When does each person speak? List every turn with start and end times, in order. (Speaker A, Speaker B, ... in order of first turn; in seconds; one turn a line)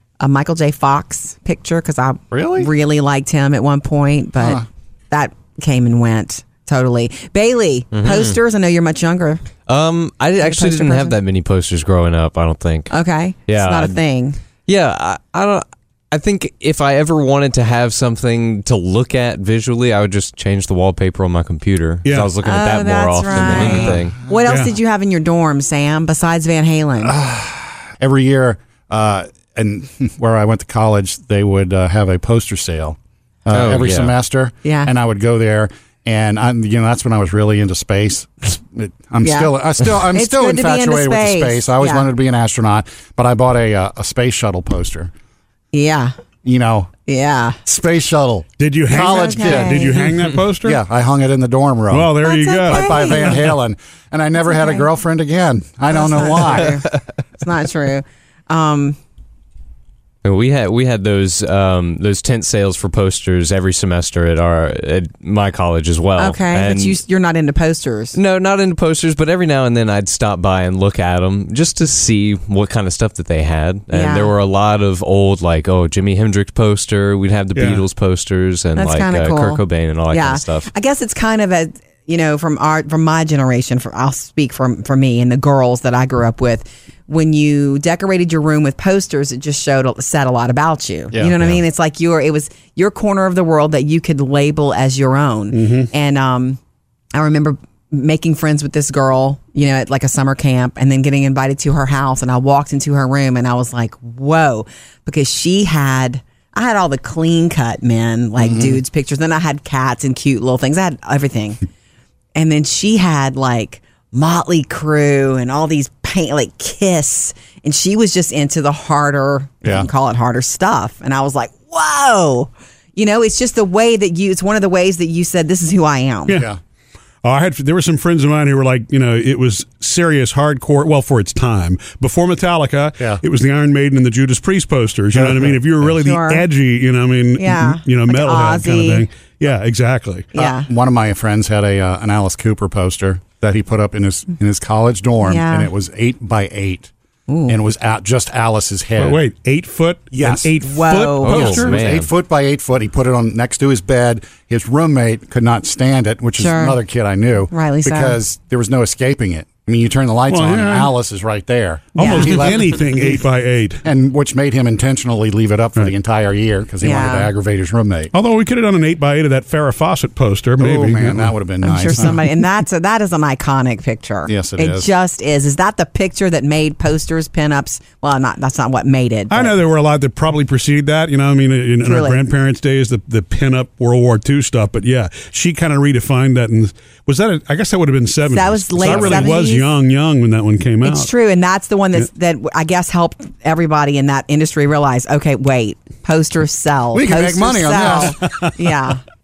Speaker A: 0.2-9.4
Speaker B: 2.3-2.7
Speaker C: 7.9-8.4
Speaker C: 9.7-12.9
Speaker A: 10.4-11.2
Speaker A: 12.9-14.4
Speaker C: 13.5-14.0
Speaker C: 14.7-24.2
Speaker D: 22.0-22.3
Speaker A: 22.4-27.2
Speaker B: 23.4-24.1
Speaker D: 24.4-24.7
Speaker B: 27.0-45.1
Speaker C: 33.5-34.1
Speaker A: 34.6-34.9
Speaker A: 39.2-39.5
Speaker A: 40.1-42.1
Speaker A: 45.7-46.1
Speaker B: 46.4-46.9
Speaker A: 47.0-47.6
Speaker B: 47.6-49.9
Speaker D: 48.6-50.8
Speaker A: 49.0-50.0
Speaker B: 50.6-52.1
Speaker D: 51.9-53.4
Speaker A: 52.2-53.4
Speaker B: 52.6-56.8
Speaker A: 54.4-54.9
Speaker A: 55.9-59.0
Speaker C: 60.2-67.0
Speaker A: 66.2-68.2
Speaker C: 68.1-80.7
Speaker A: 73.9-74.3
Speaker D: 77.5-77.8
Speaker A: 78.7-96.6
Speaker B: 91.1-91.6
Speaker D: 95.5-95.9
Speaker A: 97.1-111.6
Speaker B: 108.4-108.8
Speaker A: 112.3-126.4
Speaker D: 127.2-140.3
Speaker B: 135.1-135.5
Speaker A: 136.0-136.4
Speaker A: 137.4-139.1
Speaker A: 140.3-140.7
Speaker B: 140.3-146.9
Speaker A: 145.2-145.7
Speaker A: 147.3-147.6
Speaker B: 147.5-149.2
Speaker D: 149.0-151.8
Speaker B: 150.1-150.6
Speaker A: 150.6-151.6
Speaker C: 151.2-152.1
Speaker B: 151.3-162.7
Speaker A: 156.3-156.8
Speaker A: 157.5-158.2
Speaker D: 160.3-160.9
Speaker A: 161.9-162.4
Speaker D: 162.0-163.8
Speaker B: 163.8-168.1
Speaker A: 166.8-167.3
Speaker D: 168.1-171.3
Speaker B: 170.6-172.2
Speaker A: 171.6-179.5
Speaker D: 171.9-172.2
Speaker B: 174.3-174.9
Speaker D: 179.3-191.1
Speaker A: 181.8-182.2
Speaker A: 188.3-189.6
Speaker B: 188.8-189.3
Speaker A: 190.8-199.0
Speaker B: 196.9-198.2